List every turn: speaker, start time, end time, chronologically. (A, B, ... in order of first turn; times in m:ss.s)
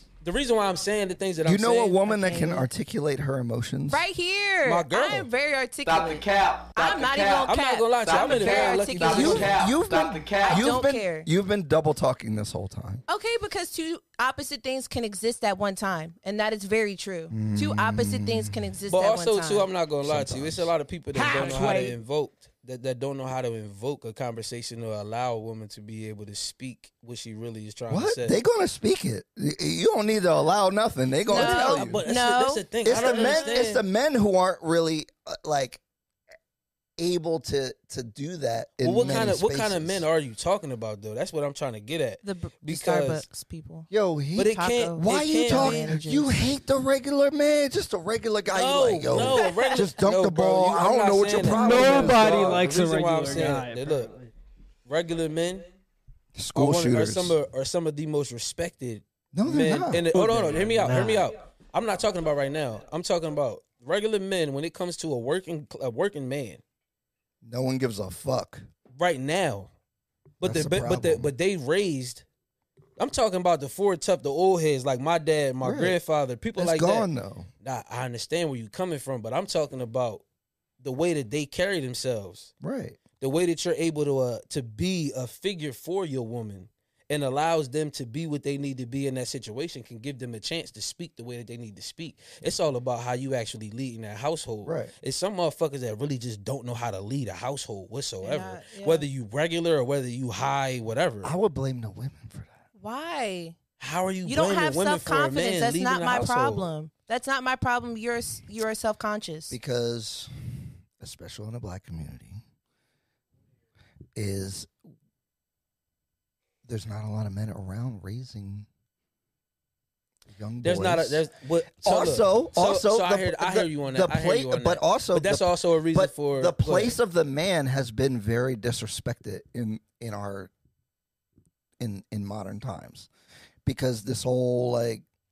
0:00.2-0:02.0 A
0:01.4-0:04.0 B
0:02.0-0:02.7 C
0:03.9-0:06.2 C
0:04.6-0:05.3 A
0:05.8-0:10.7 D
0:06.8-0:09.6 C
0:07.4-0:09.6 A
0:09.0-0:13.0 B
0:10.4-0:11.3 C
0:13.1-0:19.7 C
0:17.3-0:18.6 B
0:18.9-0:28.4 A
0:20.0-0:21.8 B
0:21.2-0:21.9 C
0:27.9-0:32.0 B
0:31.3-0:33.6 C
0:31.3-0:33.8 A
0:32.8-0:35.8 B
0:37.0-0:40.0 B
0:38.8-0:43.2 A
0:42.2-0:46.5 C
0:43.9-0:52.6 B
0:44.4-0:45.9 A
0:48.5-0:54.1 A
0:49.4-0:49.8 C
0:51.4-0:54.3 E
0:54.9-0:55.7 A
0:56.4-0:57.4 B
0:56.6-1:06.6 A
0:59.3-1:00.1 B
1:00.1-1:01.3 E
1:07.4-1:08.7 B
1:08.9-1:09.7 A
1:10.4-1:12.2 A
1:10.4-1:11.3 B
1:13.0-1:17.1 A
1:15.6-1:16.0 B
1:16.6-1:17.5 B
1:17.6-1:20.2 A
1:20.8-1:22.5 A
1:22.6-1:23.0 B
1:23.2-1:41.3 A
1:34.6-1:34.9 B
1:38.2-1:39.0 C
1:41.2-1:42.5 B
1:42.8-1:43.6 C
1:43.8-1:46.7 A
1:44.2-1:49.5 C
1:49.5-1:52.4 B
1:54.2-1:54.7 B
1:56.6-1:58.7 B
2:00.3-2:01.2 B
2:00.6-2:07.0 A
2:01.8-2:10.5 B
2:11.8-2:13.1 B
2:13.6-2:15.0 B